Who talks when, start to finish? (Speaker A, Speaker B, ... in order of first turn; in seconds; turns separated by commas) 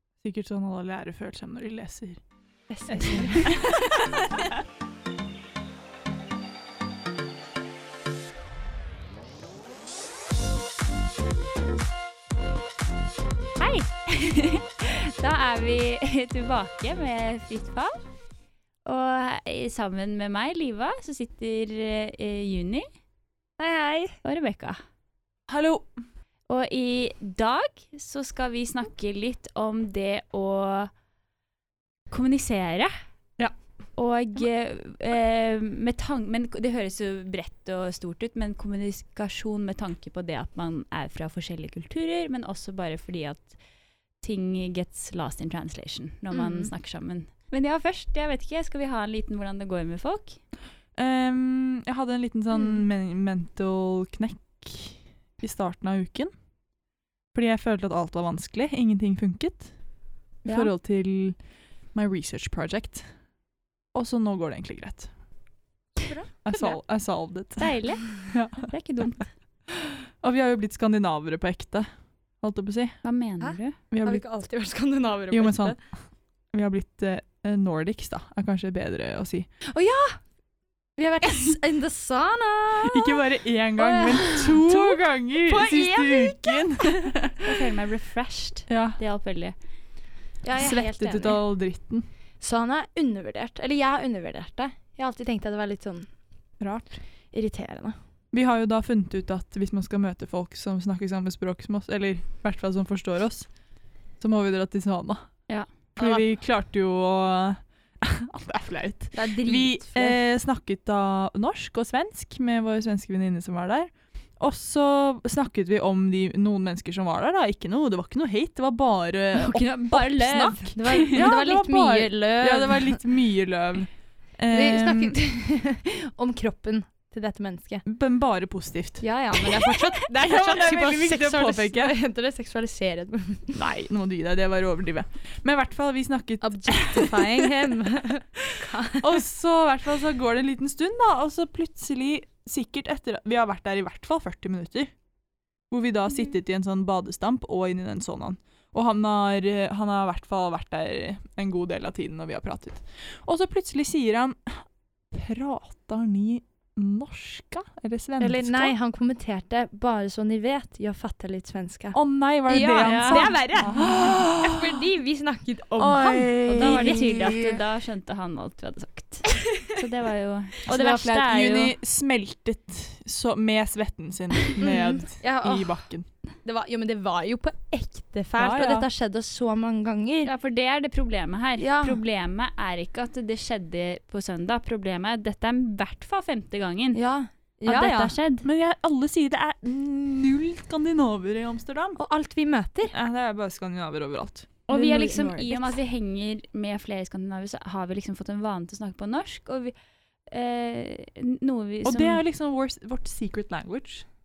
Speaker A: 0.2-2.2, Speaker B: 2.7-3.6, Speaker A: 2.9-3.9, Speaker C: 13.6-18.0, Speaker C: 18.9-22.9, Speaker B: 23.6-24.2, Speaker C: 24.2-24.8, Speaker A: 25.5-25.9, Speaker C: 26.5-30.9, Speaker C: 32.1-32.9, Speaker C: 34.0-43.6, Speaker C: 44.2-50.4, Speaker B: 46.3-46.7, Speaker A: 51.0-56.3, Speaker A: 57.3-59.8, Speaker A: 60.5-61.4, Speaker A: 61.9-63.1, Speaker A: 63.9-65.1, Speaker B: 66.0-66.3, Speaker A: 66.5-68.7, Speaker C: 67.6-69.3, Speaker A: 69.7-71.9, Speaker A: 72.4-73.0, Speaker C: 73.0-73.8, Speaker B: 73.4-75.8, Speaker A: 73.9-74.2, Speaker A: 75.3-79.5, Speaker B: 79.7-80.2, Speaker B: 81.0-87.1, Speaker A: 82.9-87.6, Speaker C: 87.4-89.5, Speaker A: 88.7-89.0, Speaker B: 90.4-91.4, Speaker A: 90.6-92.1, Speaker B: 92.4-96.1, Speaker A: 96.6-97.0, Speaker B: 97.3-98.0, Speaker A: 98.3-103.5, Speaker A: 104.2-105.3, Speaker A: 106.0-119.7, Speaker B: 109.1-110.2, Speaker C: 119.3-121.3, Speaker B: 119.9-123.0, Speaker A: 121.1-125.2, Speaker B: 124.5-127.8, Speaker A: 127.8-131.9, Speaker B: 129.0-133.6, Speaker A: 133.6-137.7, Speaker B: 136.4-139.2, Speaker A: 138.4-144.9, Speaker A: 145.7-158.7, Speaker B: 158.2-166.9, Speaker A: 161.9-164.8, Speaker C: 162.8-163.4, Speaker A: 165.8-167.6, Speaker C: 166.5-171.8, Speaker A: 170.7-176.1, Speaker B: 174.6-175.9, Speaker B: 176.4-180.3, Speaker A: 178.4-178.9, Speaker C: 180.2-187.0, Speaker B: 181.6-182.0, Speaker B: 186.9-188.2, Speaker C: 187.7-188.5, Speaker A: 188.4-192.0, Speaker B: 192.0-192.9, Speaker A: 192.9-195.3, Speaker B: 194.7-195.8, Speaker C: 194.7-199.7, Speaker C: 200.3-202.2, Speaker A: 201.8-204.1